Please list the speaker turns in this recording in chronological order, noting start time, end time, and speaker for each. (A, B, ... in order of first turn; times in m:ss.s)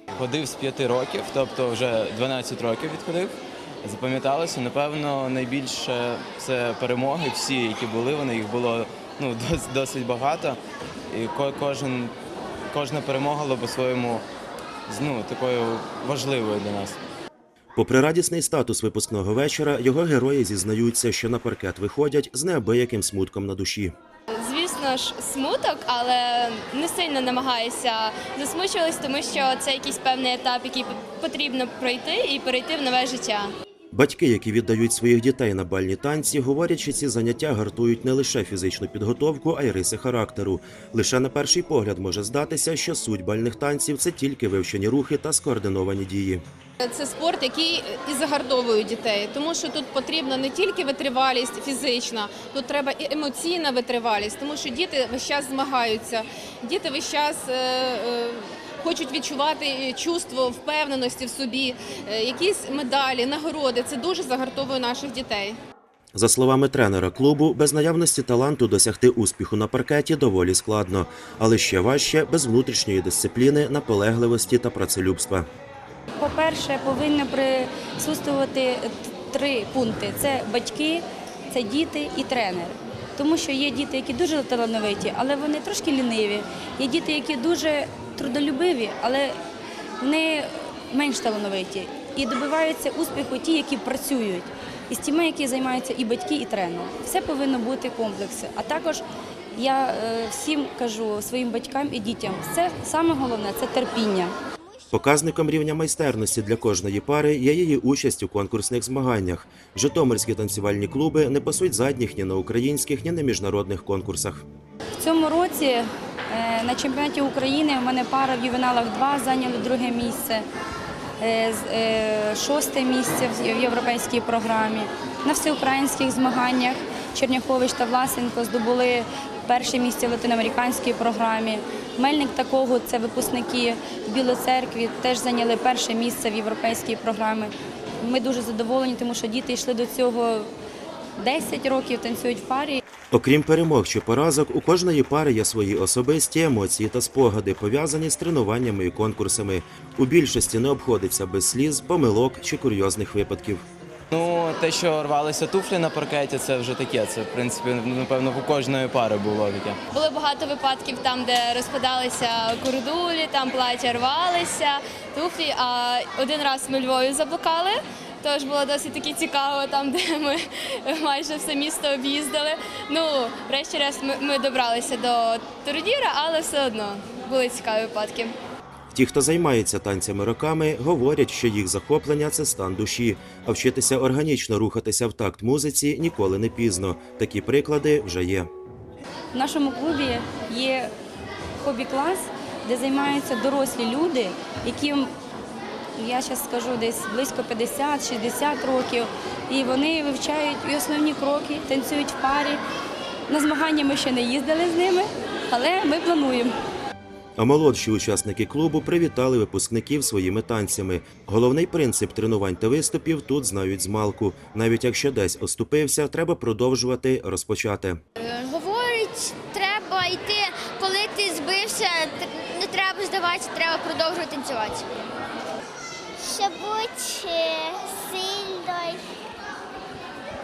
0:00.2-0:10.6 A
0:11.1-0:12.1 A
0:12.7-0:14.2 A
0:14.9-0:17.0 A
0:17.8-0:23.9 B
0:24.4-0:33.5 C
0:33.9-0:46.4 B
0:46.8-1:05.6 D
1:06.1-1:15.5 B
1:16.2-1:29.4 E
1:30.0-1:44.4 E
1:44.9-1:54.4 B
1:55.0-2:00.5 E
2:01.2-2:20.5 E
2:21.2-2:22.8 E
2:23.1-2:33.6 B
2:34.1-2:39.8 A
2:39.9-2:58.4 C
2:58.9-3:08.5 B
3:09.3-3:10.9 E
3:11.6-3:15.1 E
3:16.0-3:22.6 E
3:23.3-3:26.5 E
3:27.4-3:38.0 B
3:46.2-3:49.0 F